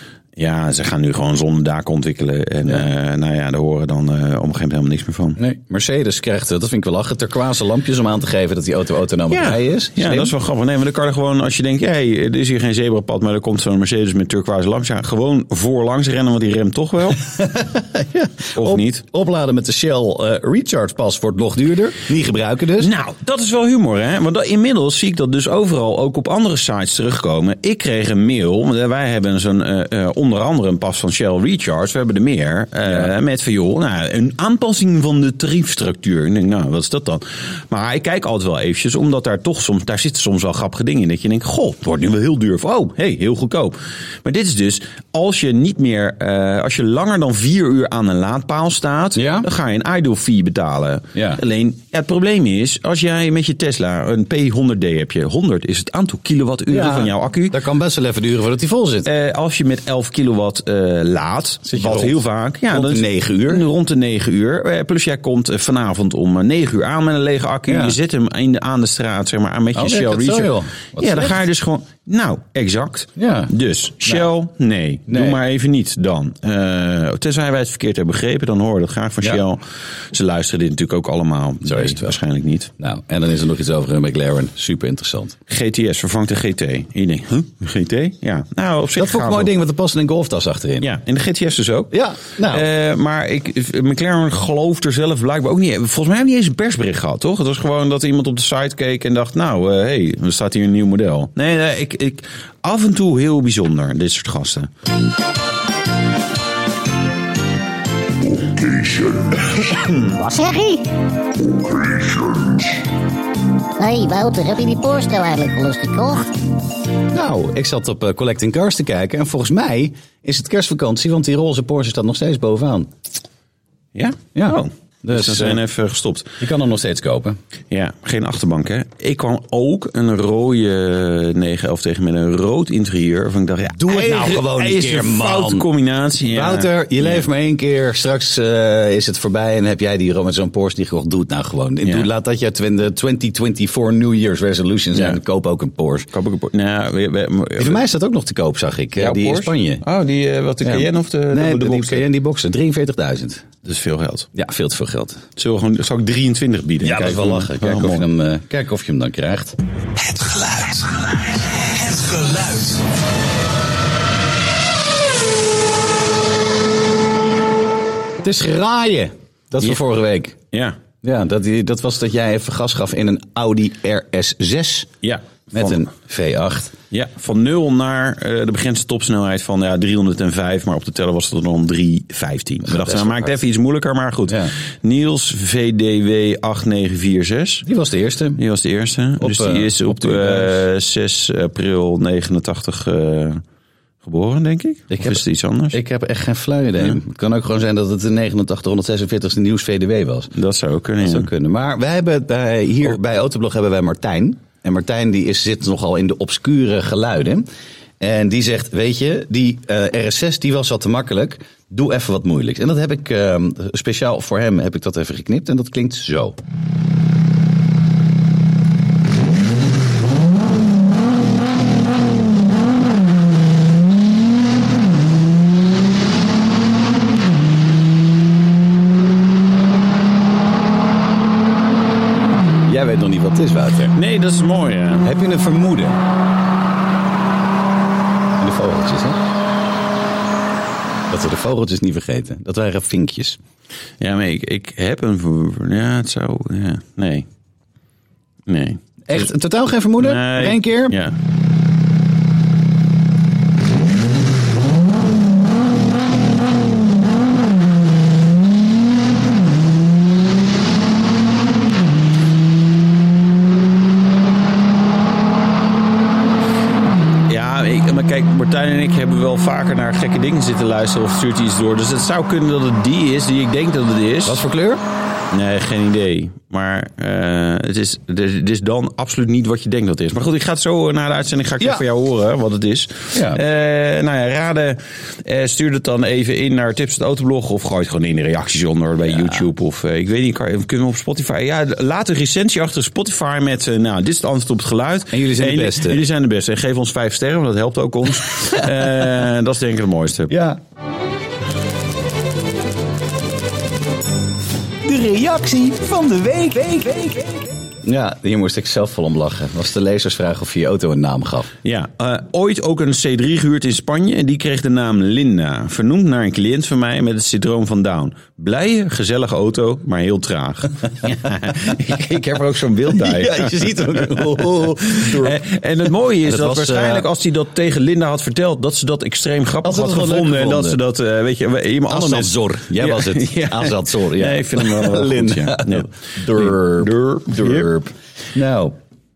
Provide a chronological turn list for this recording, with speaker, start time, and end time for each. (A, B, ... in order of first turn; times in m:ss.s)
0:00.4-0:05.4 A
0:05.4-0:10.3 B
0:09.3-0:17.2 A
0:17.4-0:22.9 B
0:18.6-0:19.0 A
0:22.8-0:57.6 A
0:49.2-0:49.5 B
0:56.7-0:59.1 B
0:59.0-1:22.7 A
1:01.6-1:03.6 B
1:07.7-1:08.0 B
1:09.7-1:11.4 B
1:13.2-1:13.5 B
1:15.1-1:15.4 B
1:21.6-1:22.0 B
1:22.8-1:25.4 B
1:25.5-1:29.5 A
1:29.0-1:30.9 B
1:30.8-1:44.7 A
1:31.9-1:32.6 B
1:49.4-1:50.9 C
1:53.8-1:56.3 C
1:57.1-2:02.9 B
2:03.9-2:06.3 A
2:04.3-2:05.6 B
2:06.4-2:07.4 B
2:07.7-2:17.2 A
2:13.7-2:15.7 B
2:16.3-2:26.1 B
2:24.9-2:25.2 A
2:26.1-2:27.8 A
2:27.6-2:29.8 B
2:29.0-2:32.0 A
2:30.6-2:33.5 B
2:33.6-2:34.3 A
2:34.3-2:35.2 B
2:35.4-2:38.0 A
2:36.8-2:39.6 B
2:40.1-2:42.8 B
2:48.2-2:50.4 B
2:50.5-2:50.8 A
2:51.0-2:54.9 B
2:55.0-2:55.8 A
2:55.5-2:56.7 B
2:56.9-3:07.6 A
3:02.7-3:03.3 B
3:04.3-3:04.5 B
3:07.6-3:08.4 B
3:08.4-3:13.4 A
3:09.2-3:10.6 B
3:14.0-3:15.8 A
3:14.9-3:20.3 B
3:20.3-3:21.3 A
3:21.0-3:27.4 B
3:28.0-3:36.3 B
3:52.6-3:53.9 B
3:53.9-3:55.1 A
3:55.0-3:56.0 B
3:58.4-3:59.2 B
4:01.1-4:03.4 B
4:04.0-4:07.3 A
4:08.4-4:09.2 A
4:09.0-4:11.0 B
4:10.0-4:11.1 A
4:27.3-4:34.4 A
4:34.2-4:34.8 B
4:35.3-5:00.3 A
4:43.1-4:43.4 B
4:55.1-4:56.0 B
5:00.3-5:00.6 B
5:04.8-5:11.5 B
5:11.6-5:37.9 A
5:22.9-5:25.4 B
5:26.2-5:27.0 B
5:29.6-5:30.8 B
5:31.9-5:38.7 B